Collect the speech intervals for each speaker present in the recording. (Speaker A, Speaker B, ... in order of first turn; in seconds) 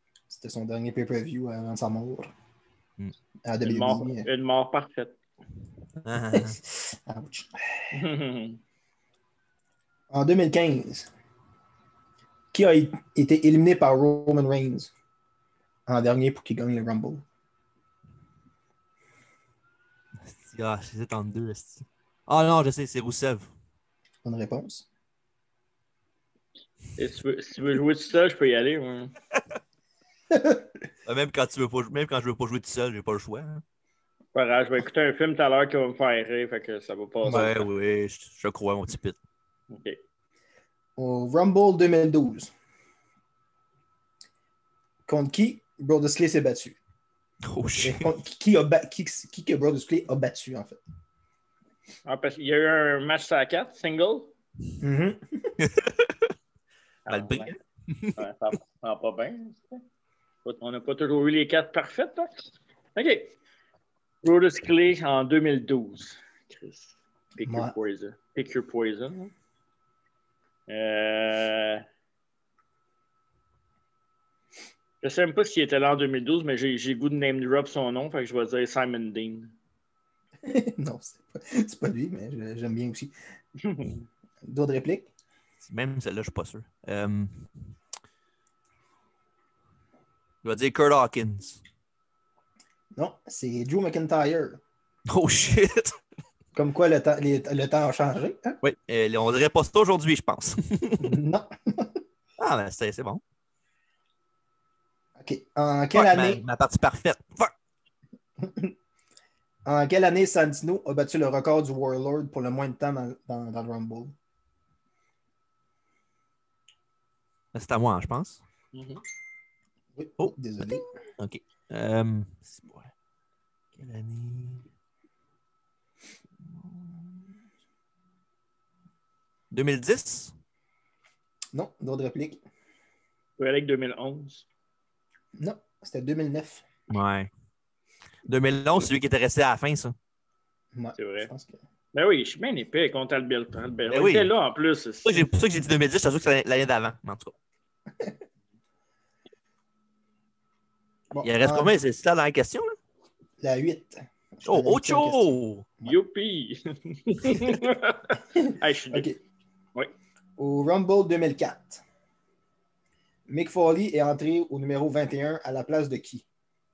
Speaker A: 0.3-2.3, 3.4-4.3, 6.3-7.9, 10.1-11.1, 12.5-14.9, 15.9-17.2, 24.2-24.9, 30.3-30.6, 37.2-37.5, 41.0-42.5, 45.1-46.8, 47.8-50.8, 54.8-55.5, 67.4-67.7, 80.4-83.1, 84.4-85.1, 92.9-94.6, 96.5-98.6, 101.0-102.0, 105.2-106.4, 108.4-108.7, 109.6-114.1, 120.0-121.0, 131.5-132.4, 135.4-136.6, 140.7-141.6, 151.1-151.7, 153.4-155.9, 158.4-159.2, 160.4-161.8, 163.3-166.2
Speaker B: 3.6-5.2, 7.9-8.6, 27.0-29.1, 34.3-37.6, 39.7-40.0, 52.0-54.3, 57.1-57.5, 58.1-59.8, 60.4-63.3, 64.2-69.3, 70.7-71.8, 75.0-79.5, 83.6-84.0, 118.7-119.0, 133.4-134.4, 141.0-141.3, 141.9-145.3, 155.8-159.1
Speaker C: 6.0-6.6, 20.2-23.5, 31.1-33.6, 37.2-39.2, 47.5-48.1, 55.6-56.3, 57.1-58.2, 85.6-87.5, 90.4-91.6, 95.1-96.0, 98.6-101.1, 102.4-103.2, 105.9-107.5, 117.5-118.4, 120.2-122.9, 123.8-124.6, 126.6-127.0, 129.5-130.3, 136.9-137.3, 138.3-139.9, 143.9-144.3, 145.0-147.3, 151.2-152.8, 154.4-155.7